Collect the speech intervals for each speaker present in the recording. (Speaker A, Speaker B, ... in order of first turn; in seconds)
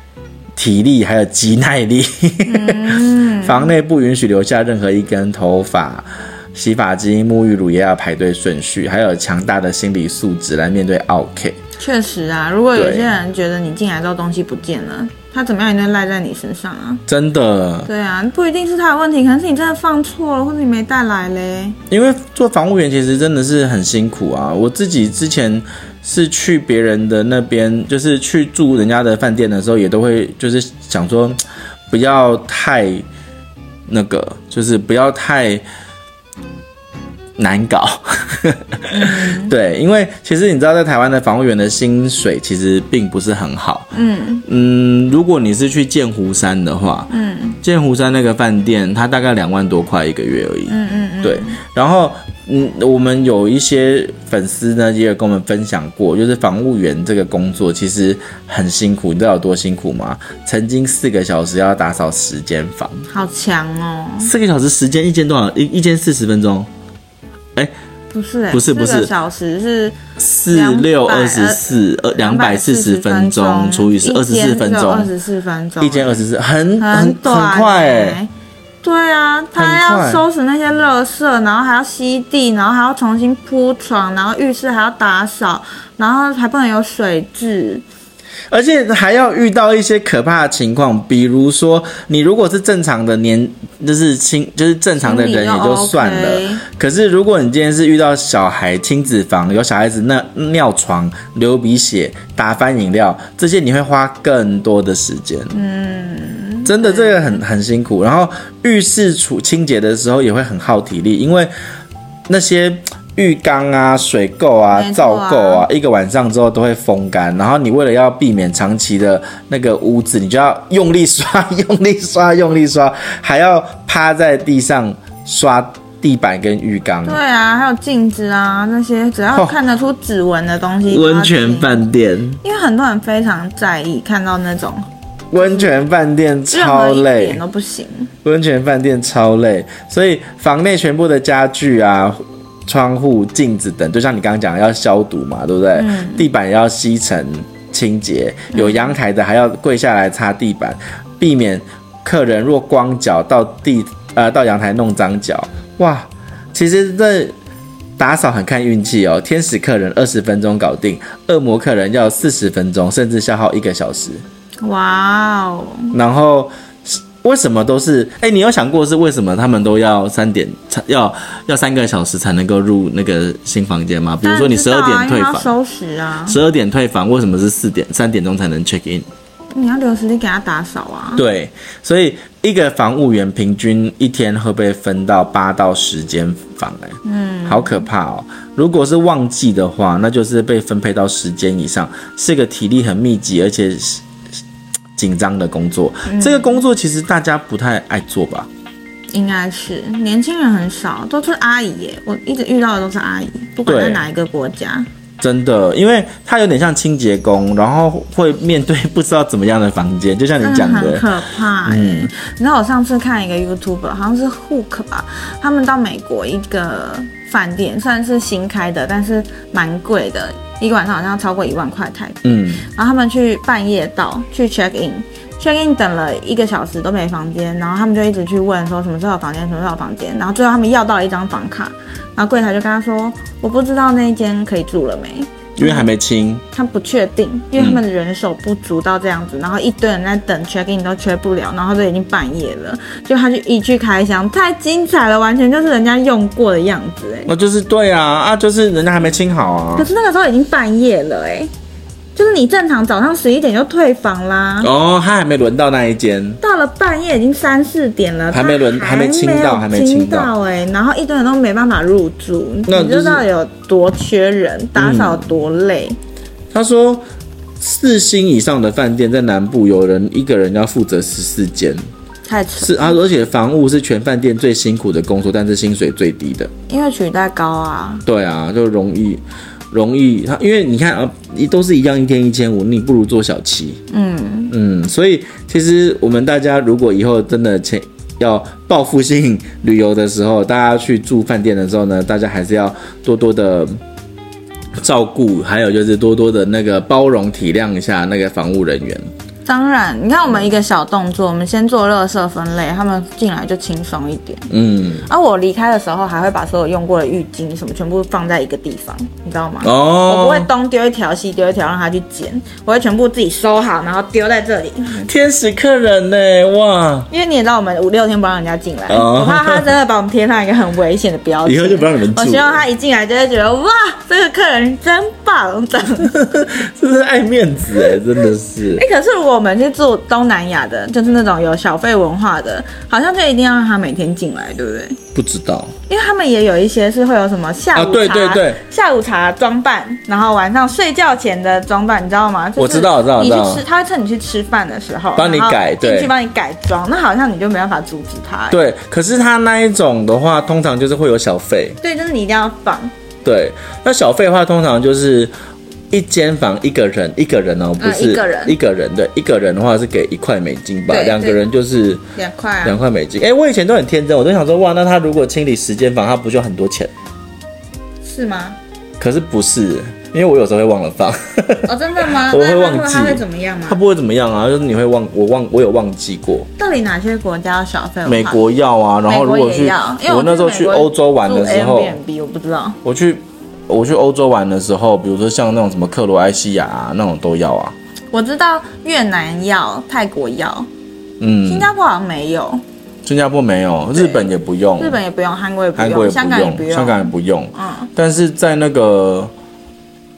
Speaker A: 0.6-11.6, 12.7-13.1, 17.1-17.9, 21.9-31.4, 31.9-33.0, 33.9-35.6, 37.4-43.9, 44.4-47.1, 47.6-63.1, 64.2-66.7, 68.5-69.1, 70.2-75.1, 75.8-78.2, 79.5-80.2, 88.5-105.5, 106.6-111.5, 112.3-127.2, 130.9-132.4, 135.3-137.4, 138.2-157.3, 158.0-164.2, 165.9-175.5, 176.3-179.1, 181.2-194.0, 194.9-198.5, 203.7-204.0, 205.2-211.1, 211.6-212.1, 222.2-222.7, 235.6-236.4, 237.6-237.8, 247.3-249.9, 254.6-256.4, 258.3-260.3, 262.7-263.2, 264.8-265.3, 266.5-267.0, 267.6-271.8, 272.6-276.5, 278.0-283.8, 284.5-293.8, 294.8-299.1, 304.5-305.1, 309.6-310.5, 315.0-317.1, 318.9-319.7, 321.4-322.6, 326.0-328.8, 335.1-335.7, 337.7-338.6, 342.6-343.6, 345.1-346.1, 348.5-351.8, 353.2-355.3, 355.9-362.0, 362.6-366.9, 369.0-376.5, 378.1-382.0, 382.8-387.7, 391.2-391.7, 393.0-395.0, 395.8-399.3
Speaker B: 2.5-3.7, 11.8-17.0, 17.9-21.8, 38.9-39.5, 43.9-44.4, 47.1-47.6, 50.7-51.6, 63.1-64.3, 68.1-76.2, 76.8-78.3, 78.8-87.8, 95.0-96.6, 105.5-107.4, 114.7-115.7, 127.0-131.8, 132.4-135.8, 136.5-138.1, 145.7-146.2, 148.5-148.9, 164.6-165.9, 174.2-176.4, 179.5-181.2, 187.0-187.8, 196.1-196.6, 199.1-204.9, 210.4-235.9, 236.5-247.3, 249.7-251.5, 252.1-254.7, 256.4-266.0, 272.2-273.0, 276.7-278.0, 283.9-284.5, 299.4-304.5, 305.0-315.1, 317.1-326.1, 328.8-335.0, 335.9-348.6, 351.8-352.9, 357.8-358.6, 360.9-361.4, 362.1-362.8, 368.0-368.6, 371.6-373.8, 376.6-378.4, 379.1-382.8, 388.1-390.7, 391.4-392.6, 393.9-397.9